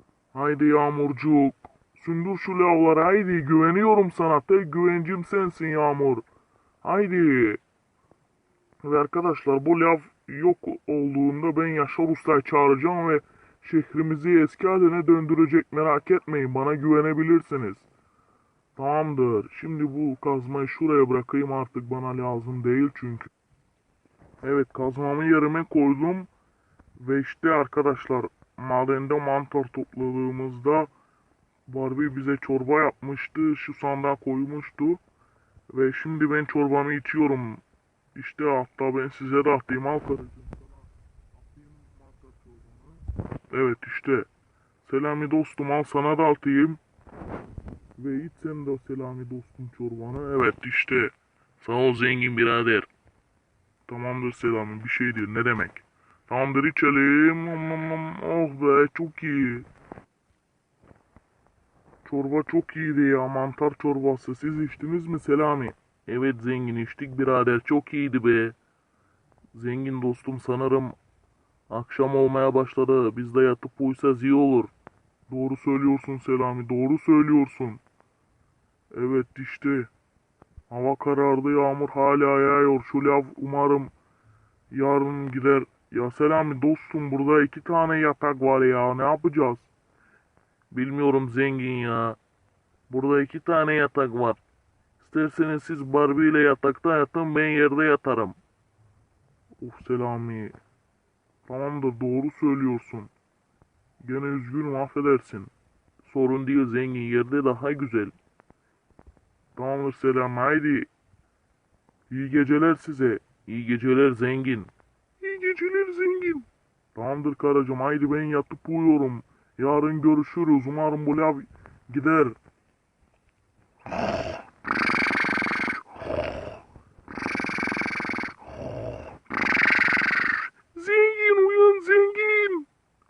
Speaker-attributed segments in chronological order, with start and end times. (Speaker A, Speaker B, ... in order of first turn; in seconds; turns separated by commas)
Speaker A: 0.3-6.2, Speaker A: 6.8-7.6, Speaker A: 8.8-17.9, Speaker A: 18.8-23.3, Speaker A: 24.4-26.3, Speaker A: 27.0-30.9, Speaker A: 31.7-35.0, Speaker A: 35.7-37.6, Speaker A: 38.1-40.7, Speaker A: 41.4-44.3, Speaker A: 44.8-46.8, Speaker A: 48.0-51.1, Speaker B: 51.6-52.9, Speaker A: 53.9-59.7, Speaker A: 62.0-66.2, Speaker B: 66.1-68.5, Speaker B: 69.6-70.9, Speaker B: 71.7-74.7, Speaker A: 74.2-74.7, Speaker A: 75.3-77.8, Speaker A: 78.9-79.9, Speaker A: 80.7-83.9, Speaker A: 84.7-89.7, Speaker B: 90.7-92.2, Speaker B: 92.9-94.4, Speaker B: 95.0-98.4, Speaker A: 99.6-100.5, Speaker A: 101.5-103.1, Speaker A: 104.0-105.5, Speaker B: 106.1-108.1, Speaker A: 109.6-110.9, Speaker A: 112.1-113.5, Speaker B: 113.5-114.7, Speaker A: 115.2-122.4, Speaker A: 130.7-132.7